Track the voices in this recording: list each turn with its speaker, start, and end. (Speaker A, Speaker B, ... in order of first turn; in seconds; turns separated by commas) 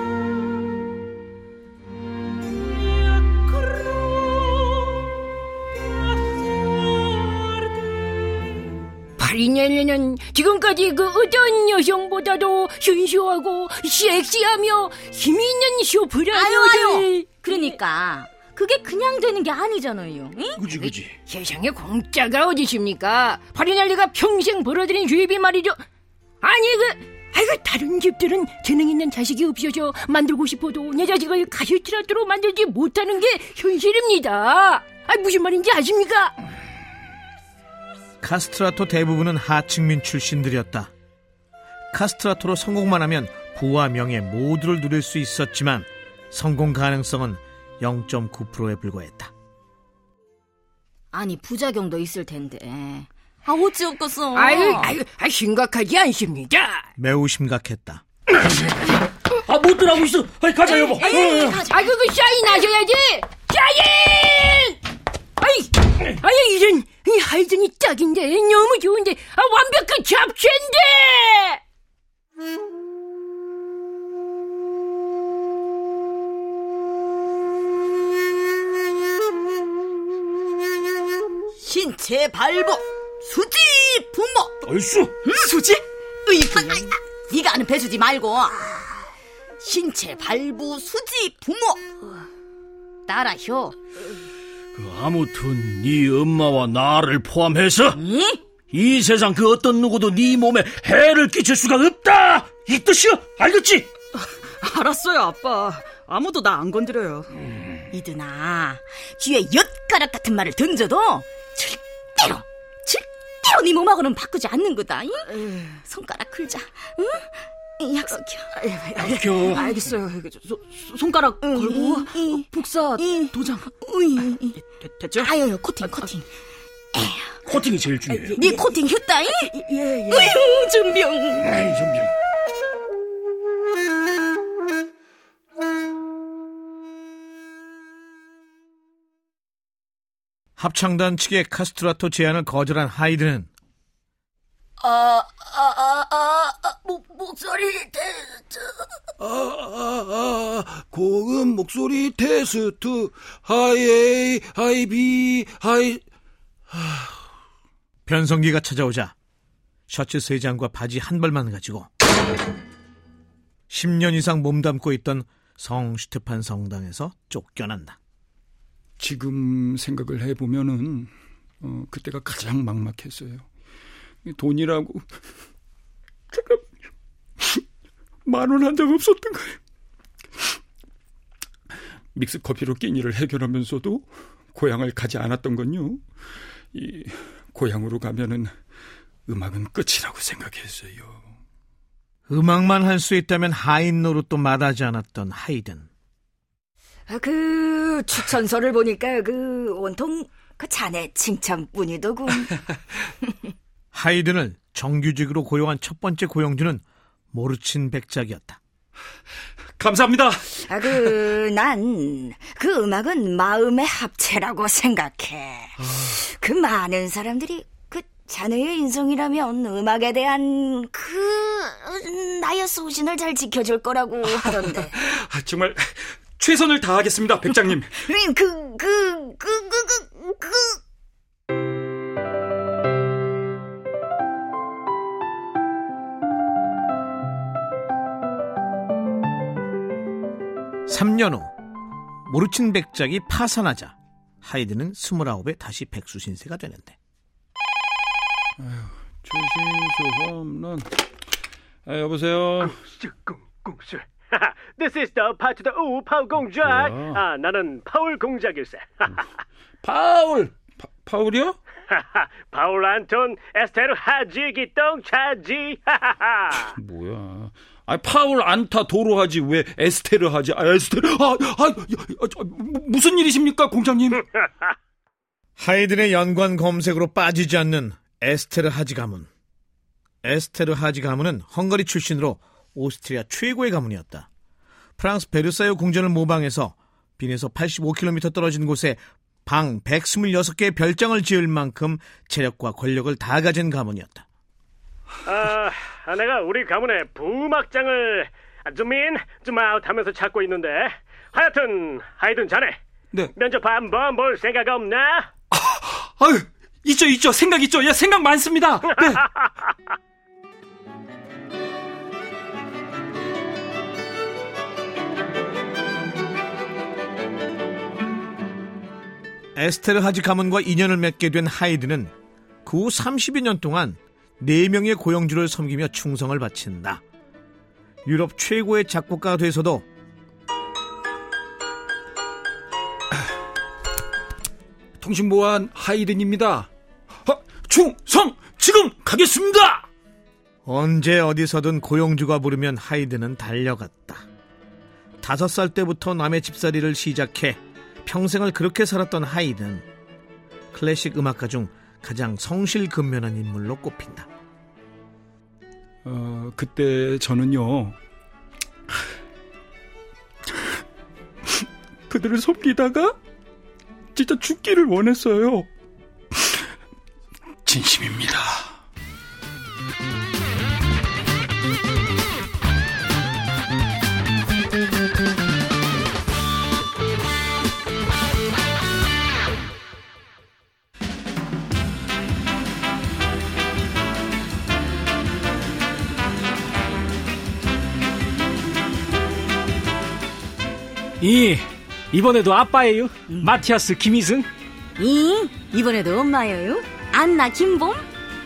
Speaker A: 9.2-17.3, Speaker B: 16.3-20.9, Speaker C: 20.6-21.1, Speaker A: 21.3-25.8, Speaker A: 26.4-36.3, Speaker D: 38.2-40.9, Speaker D: 41.9-49.3, Speaker B: 51.1-54.9, Speaker A: 54.4-56.8, Speaker D: 57.0-58.0, Speaker C: 59.5-61.5, Speaker B: 60.7-61.8, Speaker A: 61.1-64.8, Speaker A: 65.4-71.6, Speaker B: 81.6-84.5, Speaker C: 84.7-85.1, Speaker B: 85.2-88.6, Speaker B: 89.6-91.8, Speaker B: 93.1-93.8, Speaker C: 94.7-98.0, Speaker B: 98.0-98.4, Speaker C: 98.7-103.9, Speaker E: 104.6-107.3, Speaker B: 107.9-117.3, Speaker E: 115.4-115.7, Speaker B: 117.8-118.7, Speaker E: 118.6-123.7, Speaker C: 119.0-119.7, Speaker B: 121.4-124.6, Speaker E: 124.9-125.3, Speaker B: 125.1-126.2, Speaker B: 127.0-127.2, Speaker C: 127.5-128.4, Speaker B: 128.3-131.6, Speaker C: 131.5-132.1, Speaker D: 140.6-143.5, Speaker F: 149.2-156.0, Speaker F: 156.8-157.1, Speaker D: 158.1-159.1, Speaker D: 159.9-161.9, Speaker D: 163.7-168.0, Speaker F: 169.0-171.1, Speaker F: 171.6-173.4, Speaker F: 174.3-175.1, Speaker F: 176.3-176.7, Speaker F: 178.3-179.6, Speaker F: 182.1-186.0, Speaker F: 186.7-188.5, Speaker F: 189.3-191.2, Speaker D: 192.3-195.9, Speaker G: 197.1-202.4, Speaker D: 203.9-208.6, Speaker F: 209.8-211.1, Speaker G: 210.7-224.9, Speaker F: 224.3-227.9, Speaker G: 228.1-230.7, Speaker D: 240.9-241.5, Speaker D: 242.3-247.0, Speaker F: 248.6-250.9, Speaker F: 251.9-252.7, Speaker H: 253.0-259.2, Speaker F: 256.7-257.2, Speaker F: 259.8-261.6, Speaker H: 261.9-266.7, Speaker F: 266.8-274.2, Speaker D: 275.6-279.3, Speaker D: 280.2-284.3, Speaker D: 285.0-294.2, Speaker H: 295.3-302.8, Speaker H: 303.4-305.3, Speaker F: 305.6-309.2, Speaker H: 309.0-309.5, Speaker D: 319.6-322.1, Speaker D: 322.6-327.0, Speaker D: 328.1-329.9, Speaker F: 335.0-336.7, Speaker F: 337.3-339.9, Speaker D: 340.6-344.2, Speaker D: 345.2-349.9, Speaker D: 350.7-354.3, Speaker F: 356.0-358.0, Speaker F: 362.1-363.2, Speaker F: 364.1-365.7, Speaker F: 367.6-368.7, Speaker B: 393.3-393.6, Speaker B: 395.0-398.1